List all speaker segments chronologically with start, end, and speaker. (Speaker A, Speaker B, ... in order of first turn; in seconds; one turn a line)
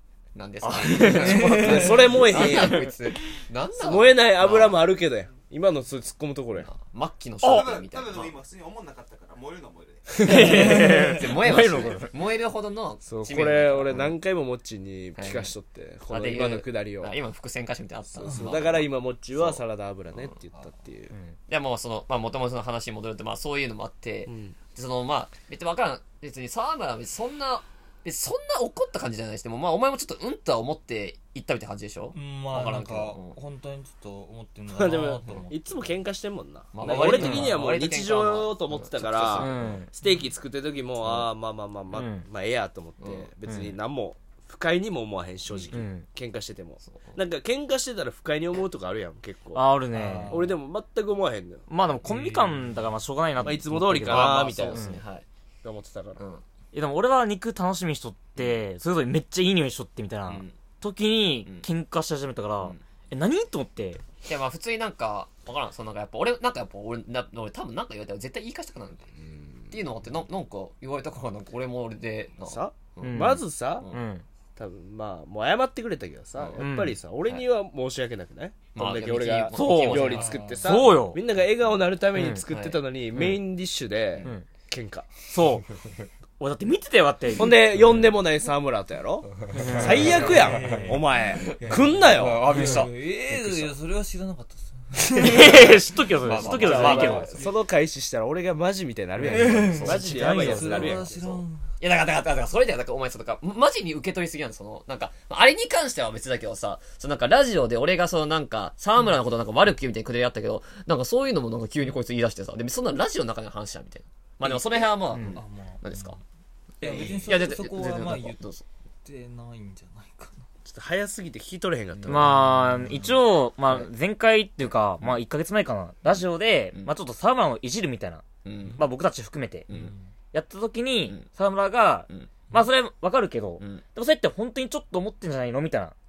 Speaker A: 0.3-4.8
Speaker B: 0.6-2.9
Speaker C: 1.2-2.8
Speaker D: 1.5-1.8
Speaker C: 3.7-6.7
Speaker A: 6.6-8.3
Speaker B: 7.4-7.7
Speaker E: 7.5-10.4
Speaker B: 10.2-12.1
Speaker A: 10.2-14.1
Speaker C: 13.0-17.1
Speaker A: 15.2-15.5
Speaker A: 16.1-19.6
Speaker C: 18.1-21.1
Speaker A: 21.5-33.4
Speaker C: 24.3-24.5
Speaker D: 32.1-35.9
Speaker C: 34.7-49.6
Speaker A: 36.7-39.8
Speaker B: 36.9-37.5
Speaker B: 39.3-39.9
Speaker D: 40.0-40.3
Speaker A: 41.0-41.3
Speaker B: 41.9-42.2
Speaker A: 43.0-43.3
Speaker B: 43.5-43.7
Speaker B: 45.7-46.0
Speaker A: 46.9-47.2
Speaker B: 49.5-50.5
Speaker D: 49.9-50.5
Speaker C: 50.3-51.6
Speaker B: 51.7-55.0
Speaker D: 52.0-52.7
Speaker C: 53.4-54.9
Speaker A: 54.0-55.2
Speaker C: 55.6-56.2
Speaker A: 56.2-56.4
Speaker B: 56.7-64.0
Speaker A: 60.3-60.5
Speaker A: 64.2-69.1
Speaker A: 69.7-74.0
Speaker C: 72.5-73.9
Speaker B: 73.0-74.2
Speaker C: 74.6-85.1
Speaker B: 76.6-77.0
Speaker A: 78.7-80.5
Speaker B: 79.5-81.2
Speaker D: 80.1-80.7
Speaker B: 82.1-82.4
Speaker A: 82.5-82.8
Speaker B: 85.3-85.7
Speaker B: 86.4-88.0
Speaker C: 87.4-92.5
Speaker B: 89.5-90.9
Speaker A: 89.8-90.5
Speaker D: 89.9-91.0
Speaker A: 91.3-93.8
Speaker D: 91.6-97.5
Speaker B: 92.5-92.8
Speaker B: 95.2-97.3
Speaker A: 95.2-95.7
Speaker A: 96.2-97.3
Speaker C: 96.4-101.3
Speaker D: 99.3-101.7
Speaker B: 99.3-100.8
Speaker A: 99.4-116.2
Speaker D: 115.3-116.2
Speaker D: 116.8-118.4
Speaker A: 116.8-118.6
Speaker B: 116.9-117.8
Speaker D: 119.0-120.5
Speaker C: 120.6-122.3
Speaker B: 122.1-128.2
Speaker D: 122.3-123.1
Speaker A: 128.4-128.8
Speaker B: 128.8-129.7
Speaker A: 129.7-129.9
Speaker D: 129.7-130.1
Speaker B: 130.3-135.9